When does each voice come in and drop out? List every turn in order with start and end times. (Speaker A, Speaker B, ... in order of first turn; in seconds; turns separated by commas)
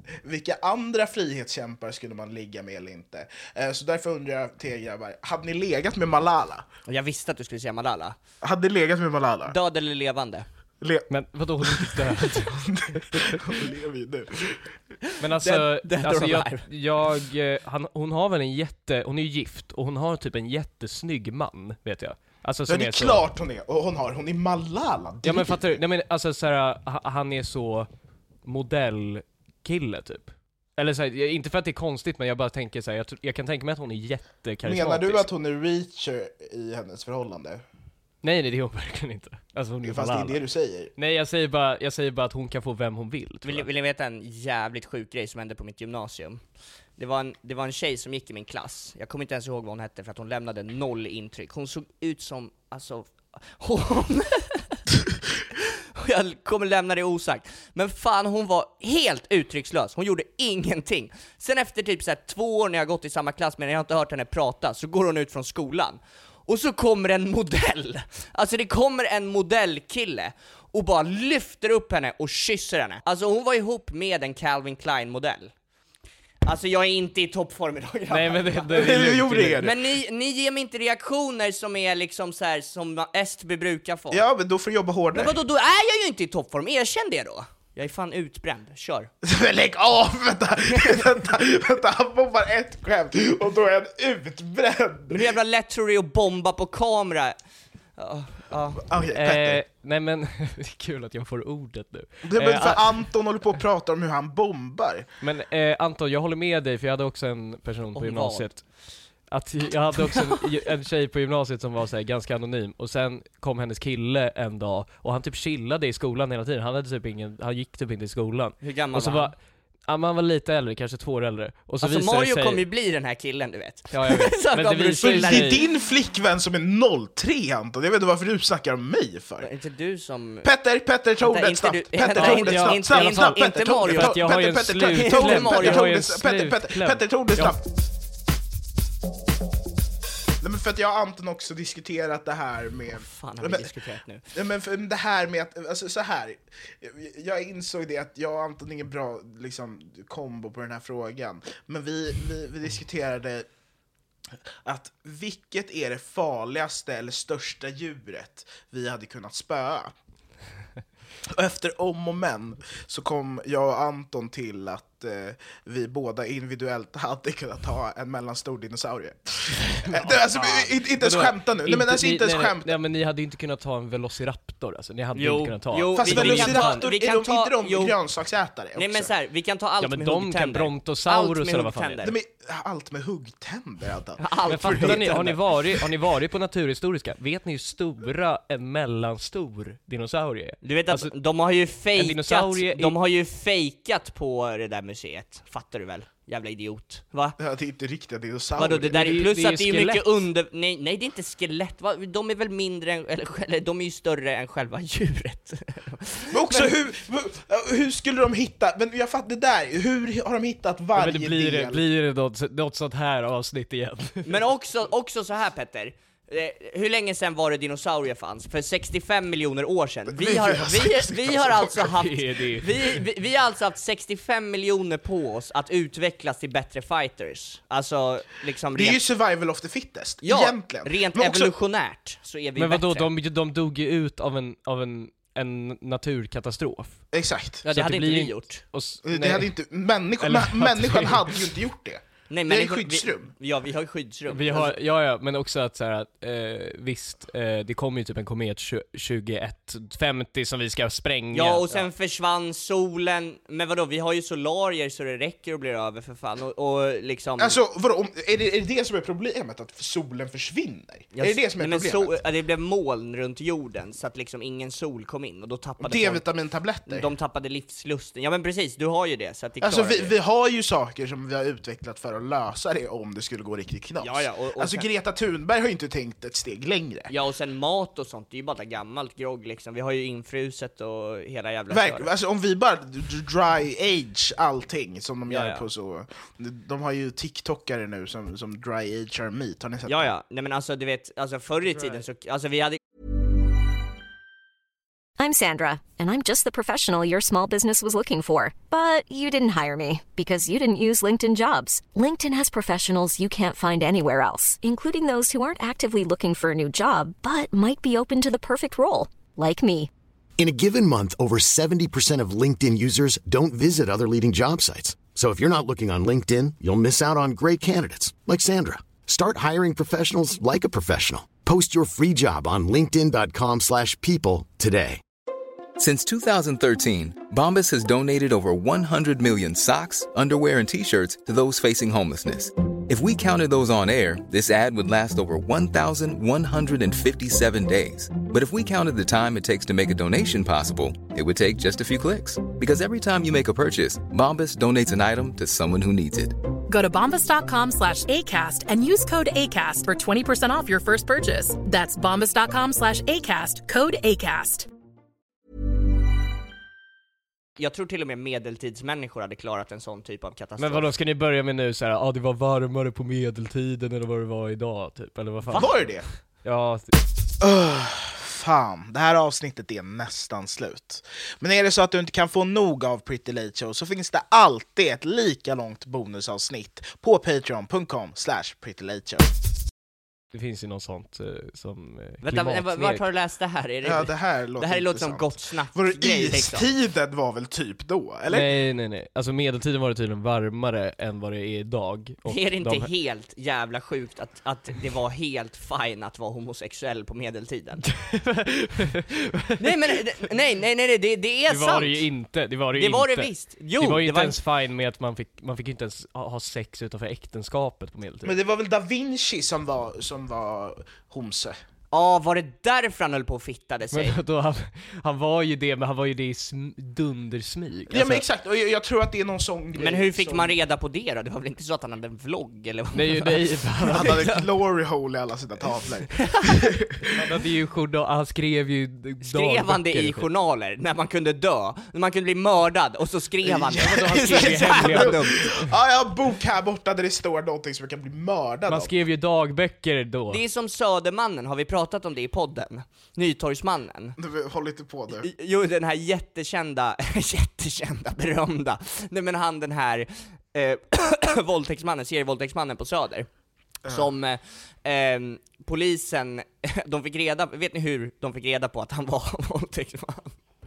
Speaker A: 0.2-6.7, Speaker B: 6.9-8.2, Speaker A: 8.4-9.6, Speaker B: 9.5-10.4, Speaker A: 10.8-11.1, Speaker C: 11.1-12.4, Speaker A: 11.6-14.7, Speaker C: 15.2-23.2, Speaker B: 15.4-16.6, Speaker A: 22.7-25.8, Speaker C: 25.2-27.9, Speaker C: 28.4-35.2, Speaker A: 34.6-37.6, Speaker C: 38.2-40.4, Speaker A: 39.8-40.9, Speaker C: 40.9-43.7, Speaker B: 43.4-46.4, Speaker B: 47.0-54.8, Speaker B: 55.5-75.5, Speaker B: 76.4-79.1, Speaker C: 78.1-79.6, Speaker A: 78.7-79.8, Speaker B: 79.6-84.2, Speaker A: 84.1-85.4, Speaker B: 85.1-89.1, Speaker A: 89.2-95.3, Speaker B: 90.7-91.0, Speaker B: 95.1-97.4, Speaker B: 98.0-98.8, Speaker A: 98.8-99.6, Speaker C: 99.1-103.1, Speaker A: 102.2-105.0, Speaker C: 105.2-119.3, Speaker B: 107.9-108.7, Speaker B: 118.6-119.3, Speaker C: 119.9-122.6, Speaker B: 121.8-125.6, Speaker C: 123.9-125.6, Speaker A: 125.0-129.5, Speaker B: 129.4-130.5, Speaker A: 130.4-137.6, Speaker B: 131.2-134.2, Speaker C: 132.1-137.6, Speaker B: 134.9-135.9, Speaker A: 140.4-143.7, Speaker B: 142.9-144.2, Speaker A: 144.3-153.5, Speaker A: 154.6-159.9, Speaker A: 161.2-172.8, Speaker C: 169.8-176.8, Speaker B: 175.1-178.0, Speaker A: 175.9-179.1, Speaker B: 178.7-182.1, Speaker C: 179.8-182.1, Speaker A: 182.0-185.3, Speaker B: 184.2-185.4, Speaker C: 184.5-191.1, Speaker B: 190.6-197.4, Speaker C: 191.9-192.9, Speaker A: 197.4-198.9, Speaker B: 198.6-206.7, Speaker C: 198.9-200.1, Speaker A: 206.3-211.8, Speaker C: 210.9-214.3, Speaker B: 214.2-229.0, Speaker A: 220.1-221.9, Speaker C: 221.8-223.0, Speaker A: 228.7-231.5, Speaker B: 230.2-233.1, Speaker C: 232.6-237.0, Speaker A: 237.1-237.6, Speaker B: 237.6-238.6, Speaker C: 237.7-239.5, Speaker A: 239.0-243.3, Speaker C: 240.2-241.5, Speaker B: 242.3-244.7, Speaker C: 244.3-251.8, Speaker B: 251.3-257.6, Speaker A: 257.4-262.1, Speaker B: 261.1-266.2, Speaker A: 265.8-267.1, Speaker B: 266.9-270.1, Speaker A: 269.6-277.1, Speaker B: 274.0-274.9, Speaker B: 277.1-282.1, Speaker A: 281.7-290.1, Speaker B: 285.3-285.6, Speaker B: 289.9-292.8, Speaker D: 295.2-309.9, Speaker E: 310.4-325.0, Speaker F: 325.8-346.3, Speaker G: 346.7-354.7, Speaker B: 357.6-360.9, Speaker C: 360.6-365.9, Speaker B: 365.5-365.9, Speaker A: 365.5-366.1, Speaker C: 366.4-366.9, Speaker A: 367.4-379.3, Speaker C: 380.3-383.0, Speaker B: 382.2-386.6, Speaker A: 383.8-388.5, Speaker C: 388.3-392.9, Speaker B: 392.2-397.9, Speaker C: 397.9-399.6, Speaker B: 399.6-402.1, Speaker C: 401.5-408.3, Speaker B: 402.7-404.4, Speaker A: 408.2-411.6, Speaker B: 411.9-414.2, Speaker C: 413.9-418.2, Speaker A: 417.9-420.6, Speaker B: 419.8-424.4, Speaker C: 422.9-424.2, Speaker A: 423.9-427.0, Speaker C: 427.1-430.3, Speaker B: 429.2-435.6, Speaker A: 433.4-438.9, Speaker C: 433.8-435.7, Speaker C: 438.7-440.4, Speaker B: 440.3-444.2, Speaker A: 444.2-445.3, Speaker B: 445.2-453.3, Speaker B: 453.9-460.3